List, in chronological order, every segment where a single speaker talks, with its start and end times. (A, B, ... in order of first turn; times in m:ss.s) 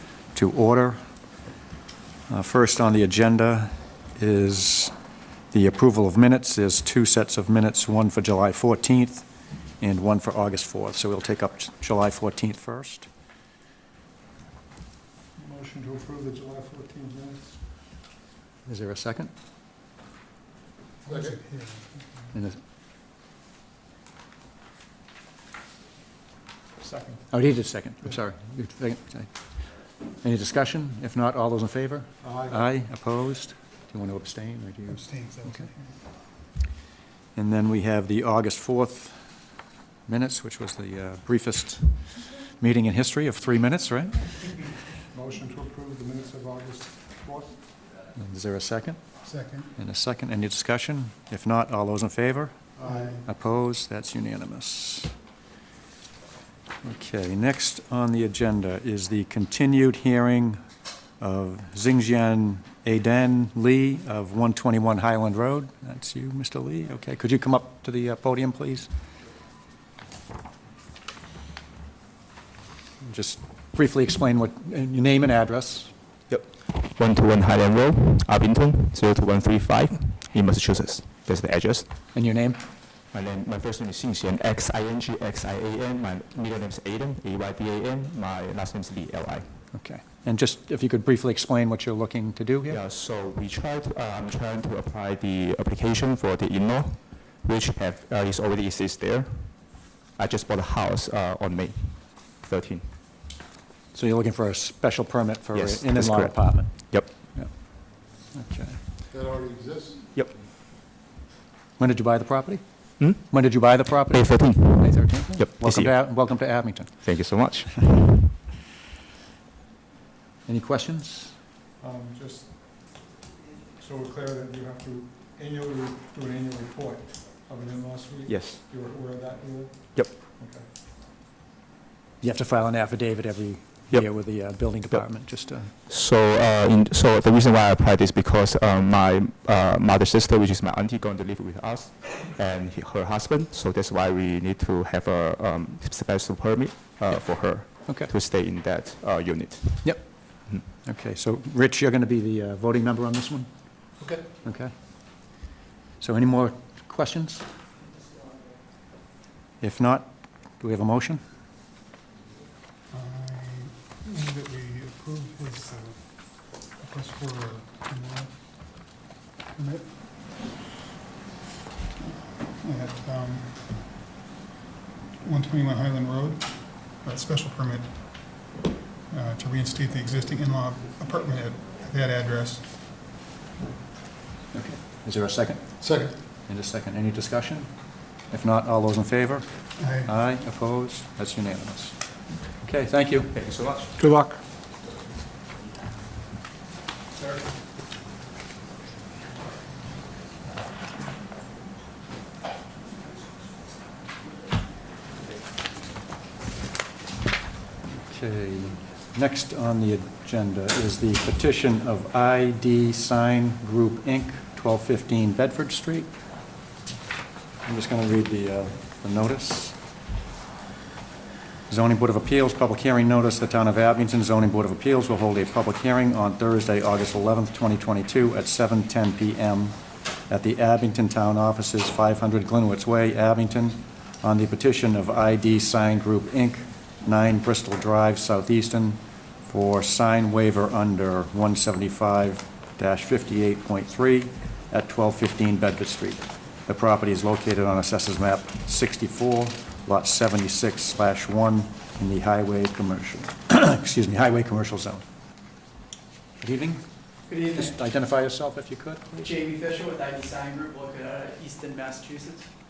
0:00.3-0:01.0 A
0:02.3-0:04.9 A
0:05.5-0:13.1 A
0:15.4-0:17.6 B
0:18.6-0:19.3 A
0:21.0-0:22.3 C
0:21.1-0:21.4 B
0:22.3-0:22.6 A
0:26.8-0:27.2 C
0:27.3-0:29.4 A
0:30.2-0:35.7 A
0:32.2-0:32.6 B
0:34.9-0:35.9 C
0:37.3-0:39.3 A
0:40.1-0:44.6 A
0:45.1-0:47.6 B
0:48.1-0:49.2 A
0:49.2-0:49.7 C
0:49.8-0:55.2 A
0:52.8-0:53.0 B
0:56.8-1:00.6 A
1:01.2-1:08.9 A
1:13.0-1:15.9 A
1:16.3-1:21.9 D
1:22.1-1:22.6 A
1:23.1-1:29.6 D
1:29.7-1:32.8 A
1:32.7-1:42.9 D
1:43.9-1:48.8 A
1:45.5-1:47.4 D
1:49.1-1:50.0 B
1:51.8-1:57.1 A
1:54.1-1:56.1 D
1:57.0-1:58.0 D
2:00.4-2:01.4 A
2:01.8-2:03.0 B
2:03.7-2:10.6 B
2:08.3-2:08.6 D
2:12.2-2:15.7 A
2:13.9-2:14.2 D
2:15.9-2:30.6 D
2:29.8-2:33.9 A
2:34.0-2:34.2 B
2:34.4-2:37.4 A
2:39.6-2:41.2 A
2:42.9-2:49.0 C
2:49.5-2:50.6 C
2:52.0-2:54.0 C
2:55.2-2:58.6 C
2:59.1-3:02.8 C
3:04.5-3:09.5 A
3:05.8-3:06.1 B
3:09.8-3:10.1 C
3:10.0-3:13.4 A
3:13.3-3:13.9 D
3:14.0-3:14.4 B
3:27.9-3:36.1 A
3:37.6-3:39.8 A
3:41.7-4:15.0 A
4:16.4-4:19.4 A
4:19.3-4:22.5 E